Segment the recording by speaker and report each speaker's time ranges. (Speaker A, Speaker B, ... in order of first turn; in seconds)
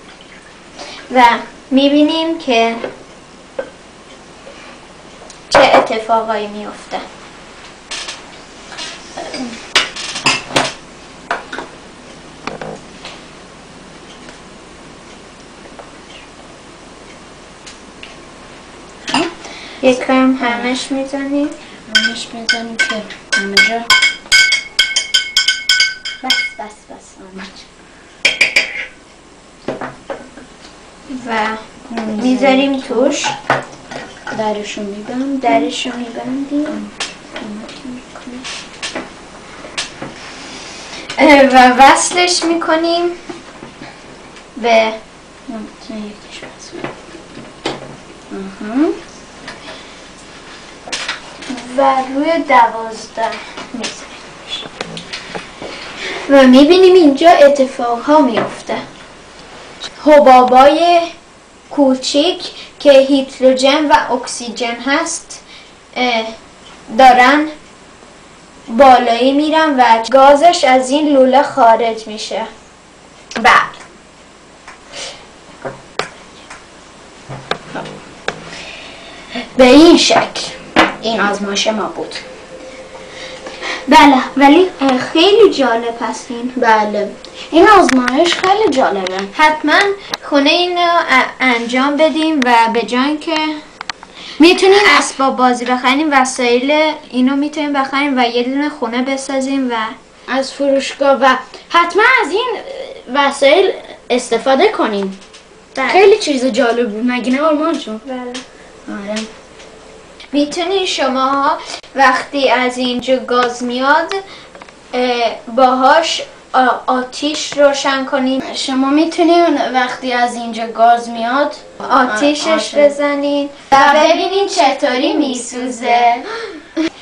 Speaker A: 1.1-2.8, 5.5-7.0, 19.8-21.5, 31.1-31.6, 32.1-33.3, 35.4-36.8, 41.2-43.1, 44.5-45.0, 51.5-54.4, 56.2-58.8, 60.0-61.1, 61.7-65.4, 65.9-66.3, 66.9-67.5, 68.7-72.5, 83.8-86.6, 89.3-93.6, 94.7-100.0, 105.7-106.1, 108.0-108.4, 110.3-114.2, 114.9-118.4, 121.8-126.6
Speaker B: 9.2-9.5, 20.4-20.7, 21.9-23.9, 26.2-27.6, 31.9-33.2, 34.3-35.7, 36.7-38.4, 45.5-46.9, 48.3-49.0, 73.4-73.7, 79.5-82.2, 86.5-89.3, 94.4-95.1, 100.3-105.2, 105.8-108.0, 108.9-109.3, 118.4-123.0, 123.7-126.3